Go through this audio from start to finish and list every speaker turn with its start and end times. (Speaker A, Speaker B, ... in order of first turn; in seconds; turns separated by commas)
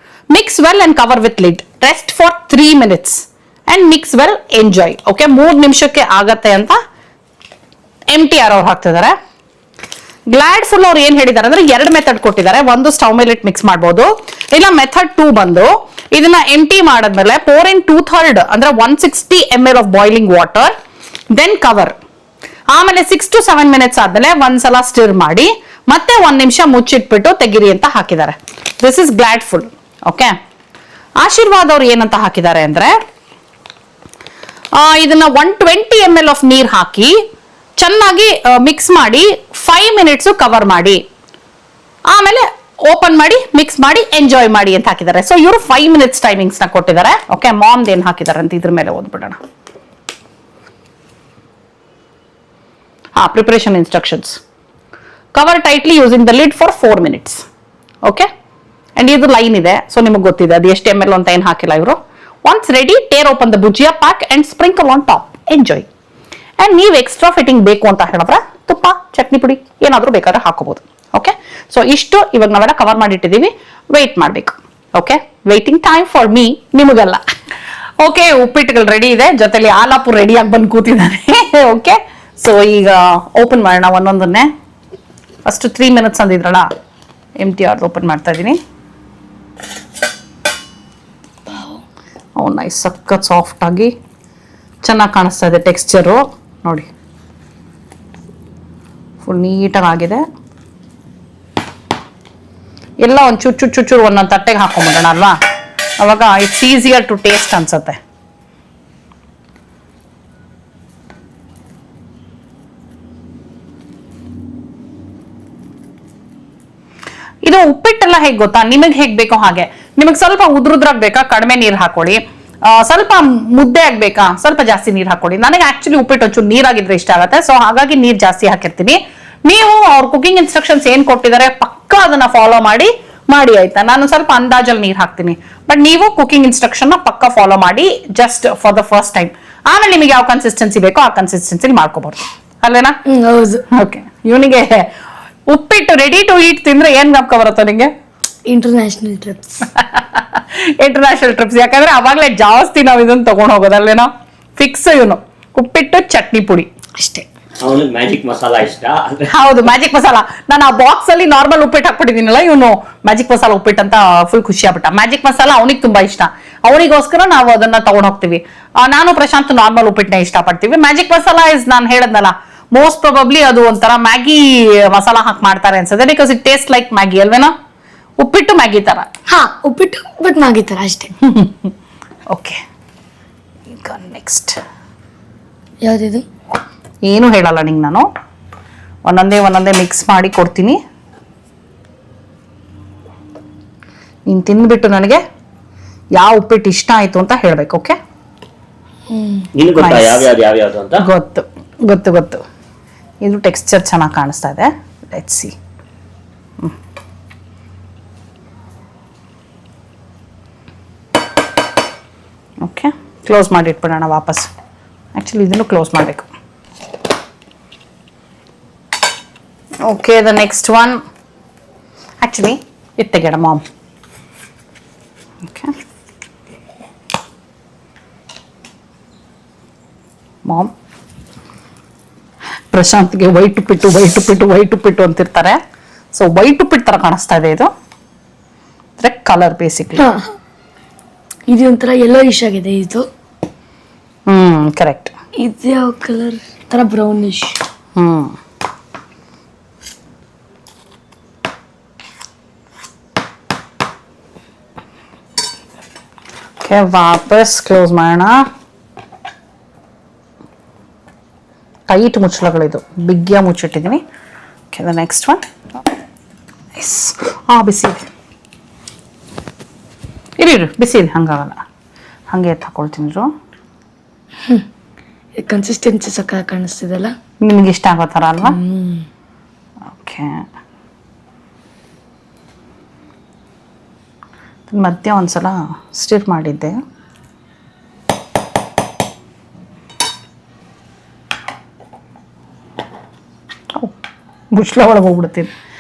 Speaker A: 0.3-6.8, Speaker A: 8.1-9.1, Speaker A: 10.3-20.7, Speaker A: 21.3-22.0, Speaker A: 22.7-30.3, Speaker A: 31.2-33.0, Speaker A: 34.8-37.2, Speaker A: 37.8-41.0, Speaker A: 42.1-49.4, Speaker A: 53.2-54.4, Speaker A: 55.4-57.5, Speaker A: 59.0-65.9, Speaker A: 66.6-77.2, Speaker A: 78.0-84.5, Speaker A: 85.5-86.7, Speaker A: 87.4-88.6, Speaker B: 91.5-91.8, Speaker A: 92.4-93.9, Speaker A: 94.8-96.9, Speaker A: 99.2-100.2, Speaker A: 103.0-105.3, Speaker A: 106.0-108.0, Speaker A: 117.5-143.0, Speaker B: 143.1-143.7, Speaker A: 143.7-144.9, Speaker A: 145.5-147.9, Speaker B: 148.5-149.7, Speaker A: 149.7-156.7, Speaker B: 157.0-157.3, Speaker C: 157.6-159.5, Speaker A: 159.3-177.5, Speaker A: 178.2-179.1, Speaker B: 179.3-181.1, Speaker A: 181.2-181.7, Speaker A: 182.3-182.6, Speaker A: 183.7-184.6, Speaker B: 185.8-186.2, Speaker A: 187.0-188.1, Speaker A: 189.1-190.8, Speaker A: 194.3-195.2, Speaker A: 196.2-198.0, Speaker B: 199.1-199.5, Speaker C: 199.6-201.1, Speaker A: 199.8-200.3, Speaker A: 201.0-202.4, Speaker A: 203.2-205.6, Speaker A: 212.6-214.5, Speaker A: 215.2-216.3, Speaker A: 219.8-221.0, Speaker A: 222.2-223.6, Speaker A: 225.4-225.7, Speaker A: 230.5-230.7, Speaker A: 232.7-235.6, Speaker A: 236.1-237.7, Speaker A: 239.0-240.1, Speaker B: 240.0-240.3, Speaker B: 241.5-243.1, Speaker A: 244.3-245.1, Speaker B: 245.4-247.6, Speaker A: 248.0-248.4, Speaker A: 256.6-258.4, Speaker A: 261.9-264.0, Speaker A: 264.7-265.4, Speaker A: 266.8-268.1, Speaker A: 270.4-271.6, Speaker A: 272.3-273.3, Speaker B: 275.4-277.1, Speaker A: 277.4-278.6, Speaker B: 278.4-279.1, Speaker A: 279.9-280.4, Speaker A: 284.7-286.8, Speaker A: 294.5-295.5